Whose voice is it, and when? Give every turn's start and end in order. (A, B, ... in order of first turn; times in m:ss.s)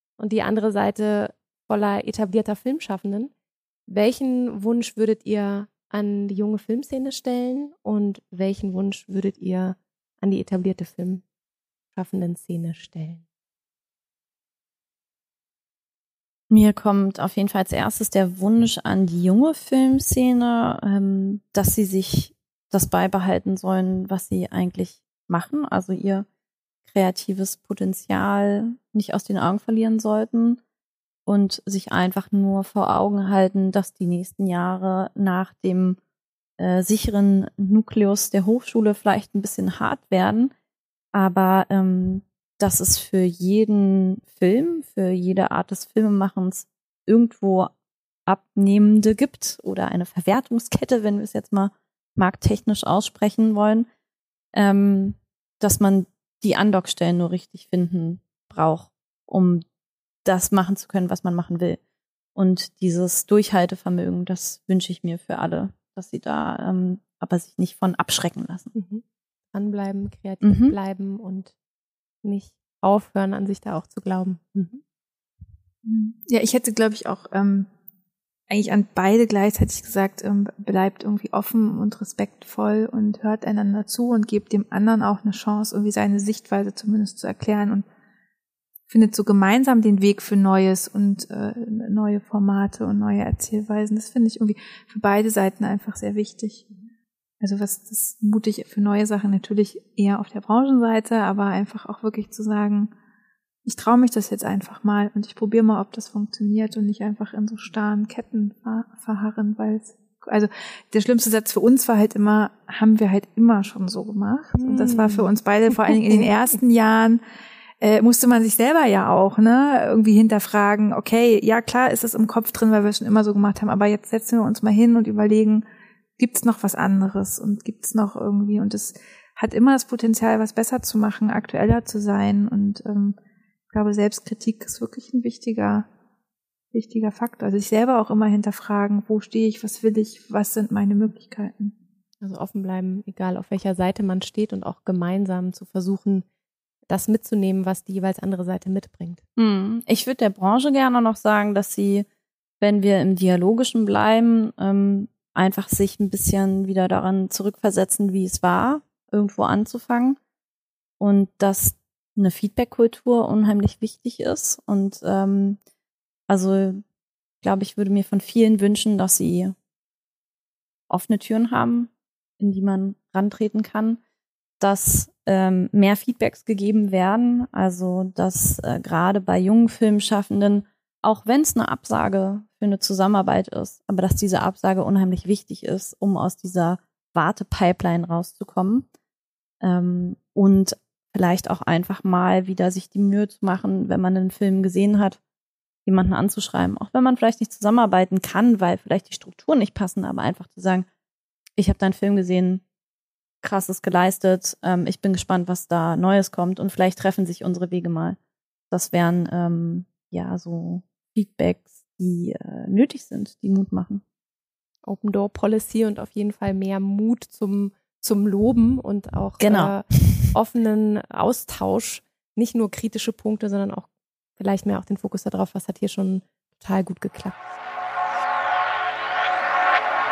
0:00.2-0:03.3 A
0:03.9-0:11.2 A
0:11.9-0:13.2 A
0:16.5-0:26.2 B
0:26.9-0:30.6 B
0:31.2-0:36.0 B
0:36.6-0:40.5 B
0:41.1-0:47.7 B
0:48.3-0:53.9 B
0:54.5-0:59.6 B
1:00.2-1:01.8 B
1:02.3-1:08.7 B
1:08.7-1:11.5 A
1:10.4-1:10.8 B
1:12.2-1:14.8 A
1:15.8-1:17.7 C
1:18.5-1:27.8 C
1:28.9-1:36.7 C
1:37.4-1:42.9 C
1:43.6-1:57.2 C
1:54.6-1:55.3 A
1:55.9-1:56.2 A
1:57.8-2:05.6 C
2:06.2-2:13.2 C
2:13.7-2:15.9 C
2:16.7-2:21.7 C
2:22.2-2:26.2 A
2:26.9-2:29.2 A
2:29.4-2:32.1 B
2:32.6-2:40.2 B
2:41.0-2:45.6 B
2:46.3-2:46.8 B
2:47.4-2:49.5 B
2:50.9-2:54.0 B
2:54.6-3:08.9 B
3:09.6-3:15.2 B
3:15.8-3:20.9 B
3:21.6-3:22.6 B
3:23.4-3:28.2 B
3:28.7-3:34.0 B
3:34.8-3:47.3 A
3:39.4-3:40.3 B